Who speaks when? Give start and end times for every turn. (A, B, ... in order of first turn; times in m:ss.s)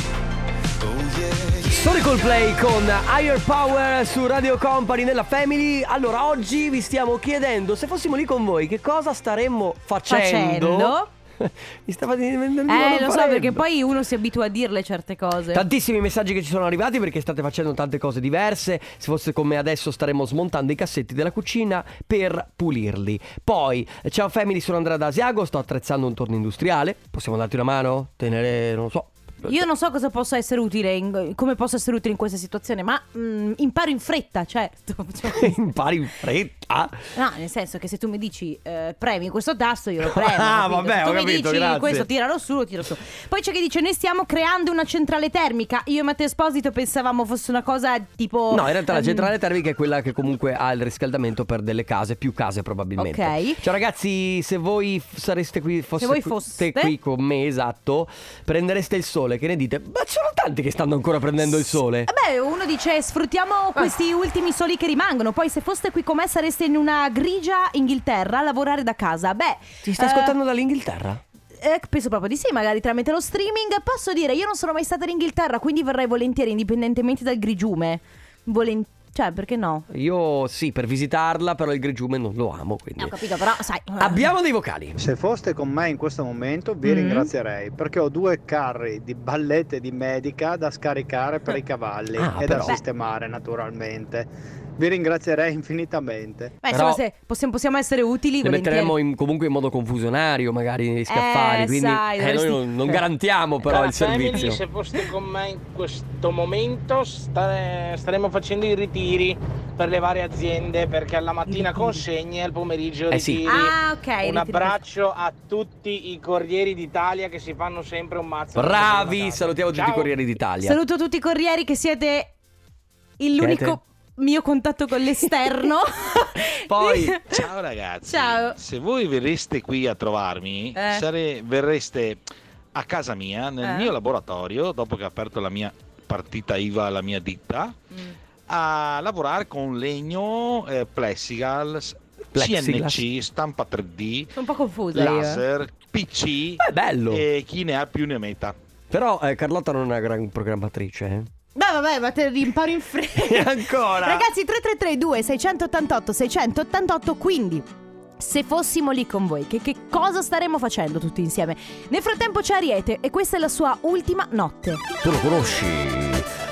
0:01.6-0:13.6 A
0:10.1-0:11.1 B
0:12.7-0:15.6 B
0:15.5-0:29.6 A
0:29.5-0:35.6 B
0:35.2-0:37.0 A
0:37.1-0:49.3 B
0:40.0-0:42.1 A
0:48.5-1:02.1 A
0:53.0-0:53.6 B
0:56.0-0:56.9 B
1:02.0-1:10.4 B
1:09.8-1:11.2 A
1:11.6-1:19.9 B
1:19.9-1:23.2 A
1:23.0-1:24.2 B
1:24.0-1:25.0 A
1:25.0-1:36.6 C
1:26.8-1:27.3 B
1:32.2-1:32.7 A
1:36.6-1:39.0 B
1:36.7-1:37.0 A
1:38.4-1:44.6 A
1:41.1-1:43.0 B
1:43.6-2:00.1 D
1:51.5-1:52.0 B
1:53.1-1:53.5 A
1:53.5-1:54.8 B
1:58.6-2:00.8 A
2:00.6-2:02.3 B
2:03.2-2:07.4 B
2:03.4-2:03.8 A
2:06.6-2:07.2 A
2:07.2-2:12.2 E
2:08.0-2:08.6 B
2:10.8-2:11.0 B
2:12.8-2:17.8 E
2:13.6-2:13.9 B
2:18.5-2:24.3 E
2:22.3-2:23.0 A
2:24.4-2:25.4 B
2:24.9-2:28.6 E
2:26.6-2:27.2 A
2:28.9-2:31.3 A
2:31.6-2:37.7 B
2:33.2-2:34.3 A
2:38.2-2:44.8 B
2:45.0-2:46.3 A